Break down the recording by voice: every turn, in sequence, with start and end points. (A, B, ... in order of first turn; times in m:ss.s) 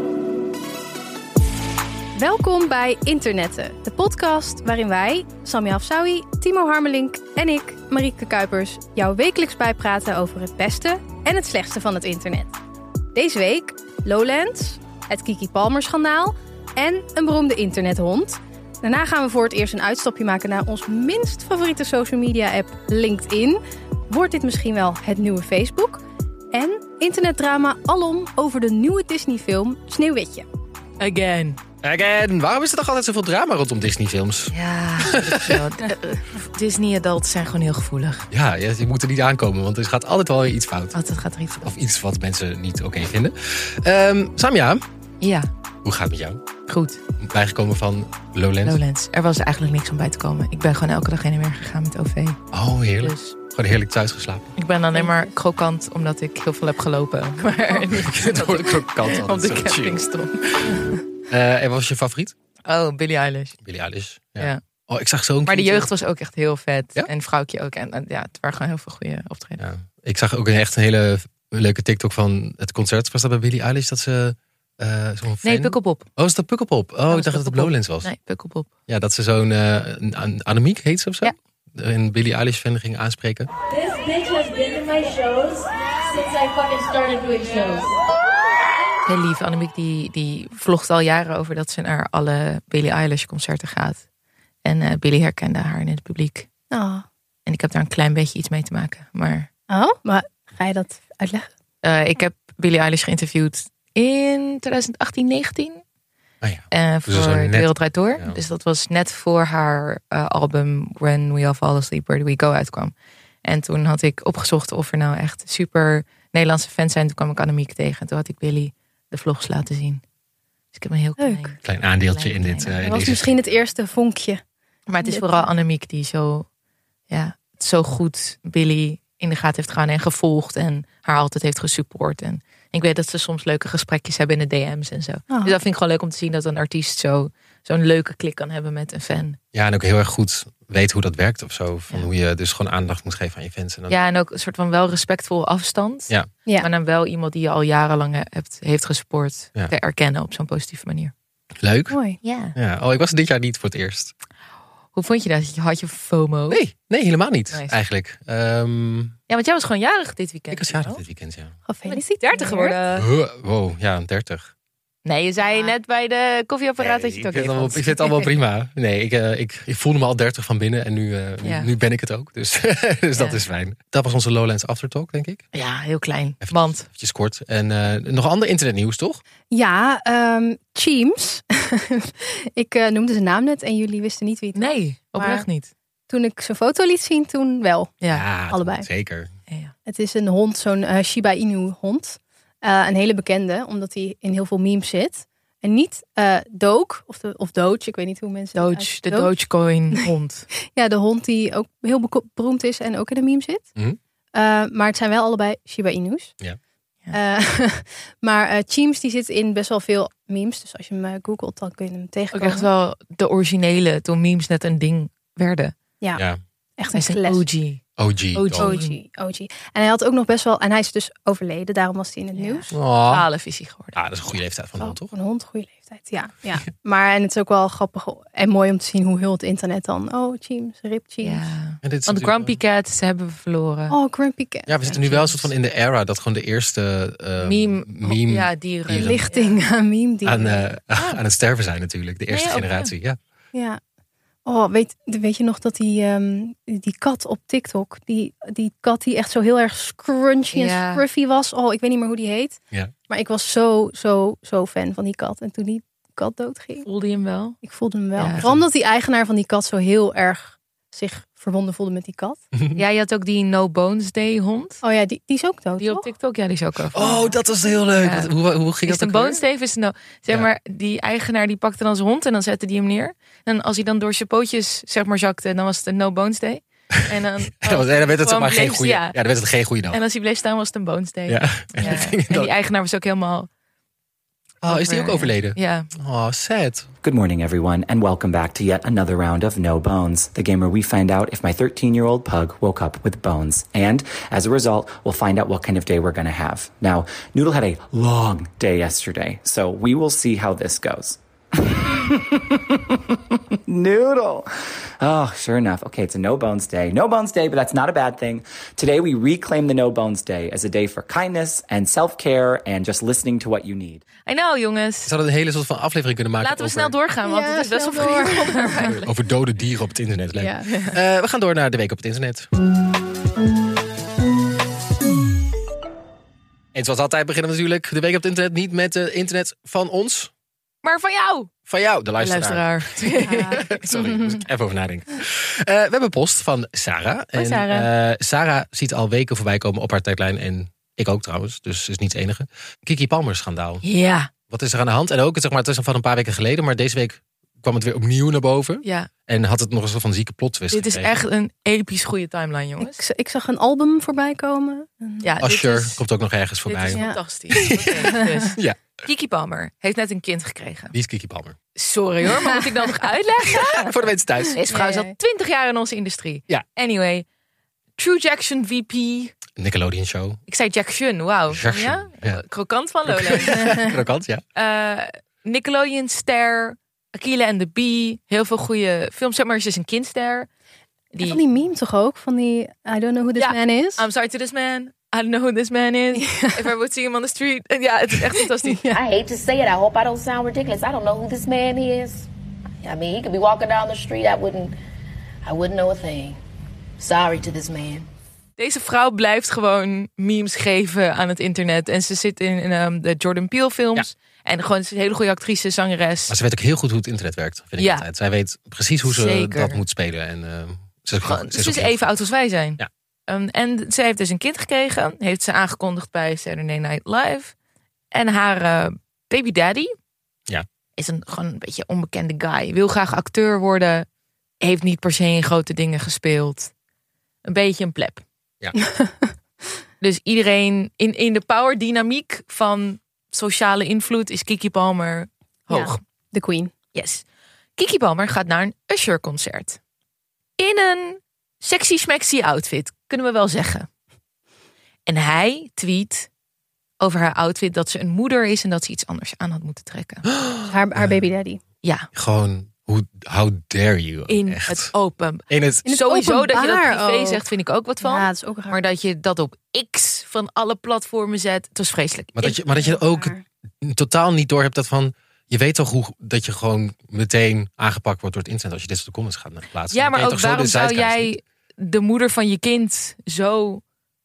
0:02.2-0:12.5 A
0:13.1-0:30.5 A
0:31.0-0:31.6 B
0:31.8-0:35.6 C
0:34.5-0:38.3 B
0:38.3-0:41.0 C
0:40.9-0:41.7 B
0:41.6-0:44.8 C
0:45.2-0:45.5 B
0:45.8-0:46.4 C
0:46.7-0:47.0 B
0:47.2-0:48.8 C
0:48.6-0:52.4 B
0:52.5-0:54.5 C
0:53.0-0:53.4 B
0:54.6-1:01.0 B
0:54.9-0:55.3 A
0:57.8-1:00.0 C
1:00.5-1:02.3 C
1:02.7-1:03.6 B
1:03.6-1:05.9 C
1:05.5-1:09.6 B
1:09.6-1:18.1 C
1:15.4-1:16.1 B
1:17.1-1:18.7 B
1:18.9-1:23.5 C
1:23.7-1:27.9 B
1:29.0-1:34.0 B
1:34.6-1:36.5 B
1:36.7-1:37.0 A
1:37.5-1:39.5 B
1:39.7-1:41.5 A
1:41.8-1:45.8 B
1:46.4-1:48.4 C
1:46.7-1:52.9 B
1:53.4-2:00.0 B
2:00.7-2:02.8 B
2:01.2-2:01.5 A
2:01.6-2:03.3 C
2:02.8-2:04.4 A
2:04.9-2:06.5 B
2:05.0-2:05.5 A
2:07.1-2:19.4 B
2:15.3-2:15.6 A
2:19.5-2:23.9 C
2:23.9-2:31.1 B
2:31.6-2:32.0 C
2:31.9-2:32.2 A
2:32.2-2:32.6 B
2:32.6-2:34.1 C
2:35.0-2:36.6 B
2:36.5-2:39.2 C
2:39.3-2:41.0 B
2:40.5-2:41.5 C
2:41.7-2:42.8 A
2:41.9-2:43.1 B
2:43.0-2:44.5 C
2:45.0-2:48.3 B
2:46.8-2:55.4 C
2:51.4-2:51.7 B
2:53.1-2:53.4 B
2:55.5-2:56.8 B
2:56.4-2:59.2 C
2:59.5-3:05.5 A
3:04.5-3:05.7 B
3:06.1-3:08.0 A
3:08.0-3:08.3 B
3:08.1-3:09.3 C
3:08.5-3:08.9 A
3:09.9-3:19.3 A
3:18.6-3:20.5 B
3:20.7-3:23.7 A
3:24.4-3:26.3 A
3:27.1-3:32.7 A
3:32.3-3:35.7 B
3:36.8-3:37.4 A
3:36.9-3:37.8 B
3:38.0-3:38.7 C
3:38.4-3:39.0 B
3:38.6-3:42.7 A
3:42.4-3:44.0 B
3:42.7-3:43.3 C
3:44.0-3:45.1 C
3:44.8-3:51.5 A
3:51.2-3:54.0 B
3:51.8-3:52.6 C
3:53.9-3:55.5 A
3:54.7-3:59.2 C
3:57.4-3:59.6 B
3:58.9-4:00.6 A
4:00.2-4:03.2 C
4:02.3-4:02.9 B
4:03.5-4:03.8 A
4:04.5-4:12.6 A
4:10.5-4:11.0 B
4:13.1-4:16.9 A
4:16.8-4:17.6 B
4:17.6-4:22.4 A
4:18.2-4:18.5 B
4:22.5-4:22.8 C
4:22.8-4:24.8 B
4:24.8-4:26.1 A
4:25.8-4:27.2 B
4:26.9-4:29.4 C
4:27.0-4:27.3 A
4:28.0-4:28.3 B
4:28.9-4:39.2 B
4:37.6-4:40.0 C
4:39.9-4:43.5 B
4:41.3-4:42.5 C
4:44.6-4:46.9 C
4:44.7-4:45.9 B
4:47.0-5:04.5 D
5:05.0-5:14.0 D
5:14.3-5:15.1 B
5:15.1-5:17.0 C
5:16.4-5:19.1 B
5:17.2-5:18.9 A
5:18.8-5:22.5 C
5:20.4-5:20.6 A
5:20.7-5:21.0 B
5:26.7-5:30.3 C
5:30.8-5:31.5 B
5:31.7-5:43.8 C
5:32.2-5:33.7 B
5:33.2-5:34.4 A
5:37.4-5:37.9 B
5:43.8-5:44.3 B
5:44.5-5:51.1 C
5:48.8-5:49.1 B
5:50.7-5:53.0 B
5:52.8-5:55.4 A
5:55.2-5:56.0 B
5:55.4-5:57.0 C
5:56.7-6:00.9 B
5:57.5-5:58.8 C
5:58.0-5:58.4 A
6:00.9-6:01.6 C
6:01.8-6:07.3 B
6:03.8-6:04.6 C
6:04.7-6:05.2 A
6:08.0-6:09.4 B
6:09.6-6:10.4 C
6:10.5-6:13.9 B
6:11.5-6:12.4 C
6:13.1-6:14.4 C
6:14.6-6:20.5 B
6:21.1-6:21.4 B
6:21.2-6:24.0 A
6:23.4-6:28.8 B
6:26.2-6:26.7 A
6:28.6-6:29.0 A
6:28.9-6:32.3 E
6:32.8-6:34.8 E
6:35.5-6:36.4 E
6:37.0-6:38.1 E
6:38.6-6:46.4 B
6:46.3-6:52.1 C
6:47.8-6:48.0 B
6:49.0-6:49.8 B
6:51.2-6:57.5 B
6:58.1-6:59.9 B
7:01.0-7:04.1 B
7:04.6-7:06.7 B
7:07.5-7:08.2 B
7:08.8-7:09.3 A
7:10.0-7:16.0 B
7:15.7-7:16.7 A
7:17.0-7:17.2 B
7:17.8-7:19.8 B
7:20.6-7:23.9 B
7:25.1-7:26.3 B
7:27.0-7:30.2 B
7:30.2-7:31.2 C
7:30.7-7:31.6 A
7:31.8-7:32.1 B
7:32.1-7:34.9 C
7:34.3-7:42.6 B
7:35.5-7:35.9 C
7:35.9-7:37.4 A
7:38.0-7:38.8 A
7:42.4-7:51.3 C
7:42.7-7:43.4 A
7:49.9-7:53.8 B